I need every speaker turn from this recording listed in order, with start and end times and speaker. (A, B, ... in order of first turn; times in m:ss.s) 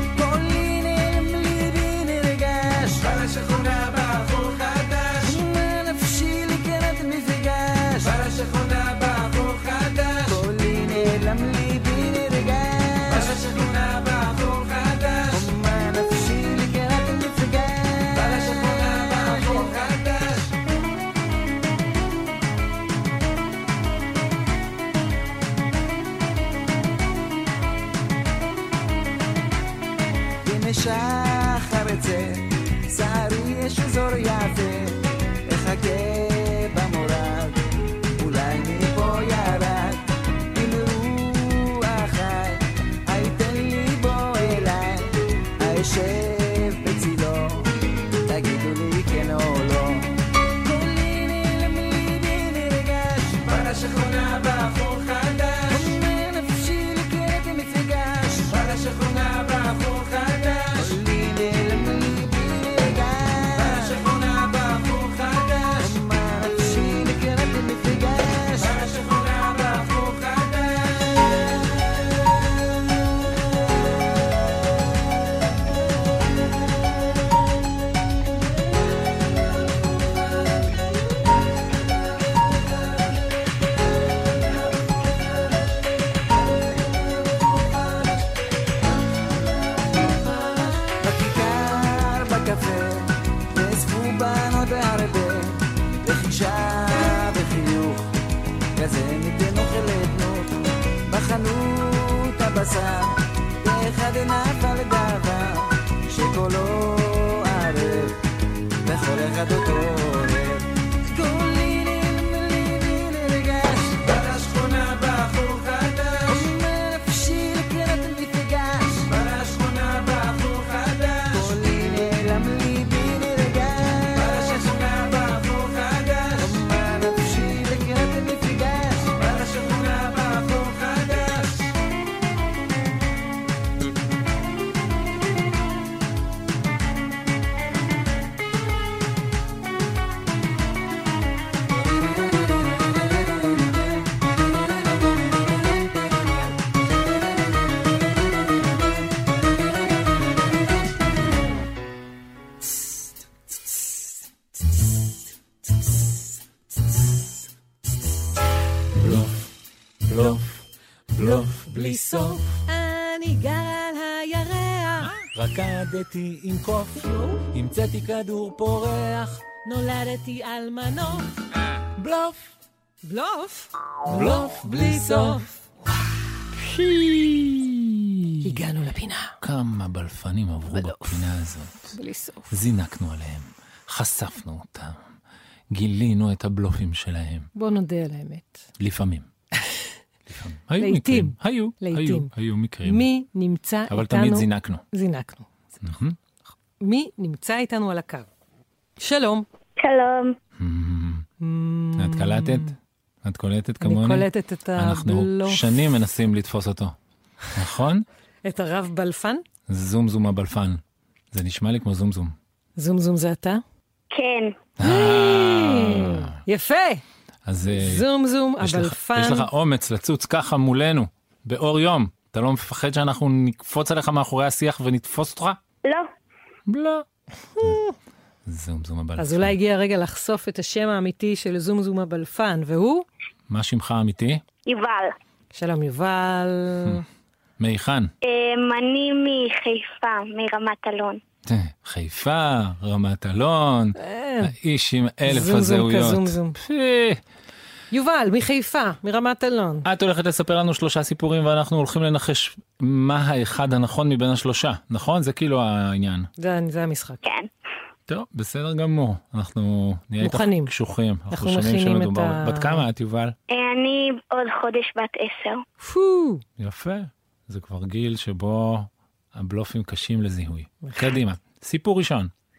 0:00.2-0:03.1 A
0:05.1-0:08.2 A
0:10.2-0:13.5 A
0:15.3-0:19.8 A
0:30.4-0:37.6 A
0:38.2-0:40.0 A
0:40.5-0:47.7 A
0:48.3-0:53.6 A
0:53.8-0:55.4 B
0:55.7-0:58.5 A
0:58.8-1:00.2 B
1:00.7-1:04.0 A
1:04.1-1:05.3 B
1:05.8-1:08.9 A
1:08.9-1:10.2 B
1:31.0-1:38.1 A
1:38.8-1:40.5 A
1:41.1-1:48.2 A
1:48.8-1:54.0 A
1:54.5-1:56.0 B
1:56.2-1:59.1 A
2:01.3-2:04.6 A
2:06.4-2:09.3 A
2:39.0-2:39.4 B
2:40.1-2:42.5 B
2:41.8-2:45.1 C
2:45.0-2:49.6 B
2:49.6-2:51.3 C
2:52.0-2:52.4 B
2:53.1-2:55.5 C
2:54.1-2:55.5 B
2:56.6-2:58.6 B
2:58.4-2:59.4 C
2:59.4-3:02.0 B
3:00.7-3:01.3 C
3:01.9-3:02.5 C
3:02.5-3:05.0 B
3:05.7-3:07.5 B
3:07.6-3:08.6 C
3:08.8-3:09.3 B
3:10.3-3:13.1 B
3:10.8-3:12.3 C
3:12.8-3:15.5 C
3:13.9-3:14.8 B
3:15.8-3:16.2 B
3:16.8-3:18.3 C
3:19.0-3:19.5 C
3:19.8-3:20.4 D
3:20.6-3:21.3 B
3:21.4-3:22.7 C
3:22.0-3:27.0 B
3:23.8-3:25.7 C
3:27.5-3:28.1 B
3:28.4-3:29.4 C
3:29.7-3:32.4 B
3:32.8-3:33.6 C
3:34.1-3:34.6 D
3:34.8-3:36.3 B
3:34.8-3:37.0 C
3:37.5-3:38.1 B
3:37.7-3:39.5 C
3:38.6-3:45.6 B
3:46.7-3:47.1 B
3:47.6-3:47.9 C
3:48.5-3:49.6 B
3:49.2-3:53.1 C
3:53.5-3:54.4 B
3:54.7-3:55.1 D
3:55.5-3:57.0 C
3:57.6-3:58.1 B
3:58.2-4:01.2 D
4:01.5-4:07.2 B
4:04.0-4:04.5 C
4:05.3-4:06.6 C
4:07.9-4:09.9 C
4:09.8-4:16.3 B
4:16.4-4:17.2 C
4:17.2-4:17.5 D
4:18.1-4:23.4 B
4:20.2-4:20.7 C
4:21.3-4:22.8 C
4:23.5-4:25.6 D
4:25.8-4:26.4 C
4:26.6-4:32.3 B
4:30.8-4:31.1 C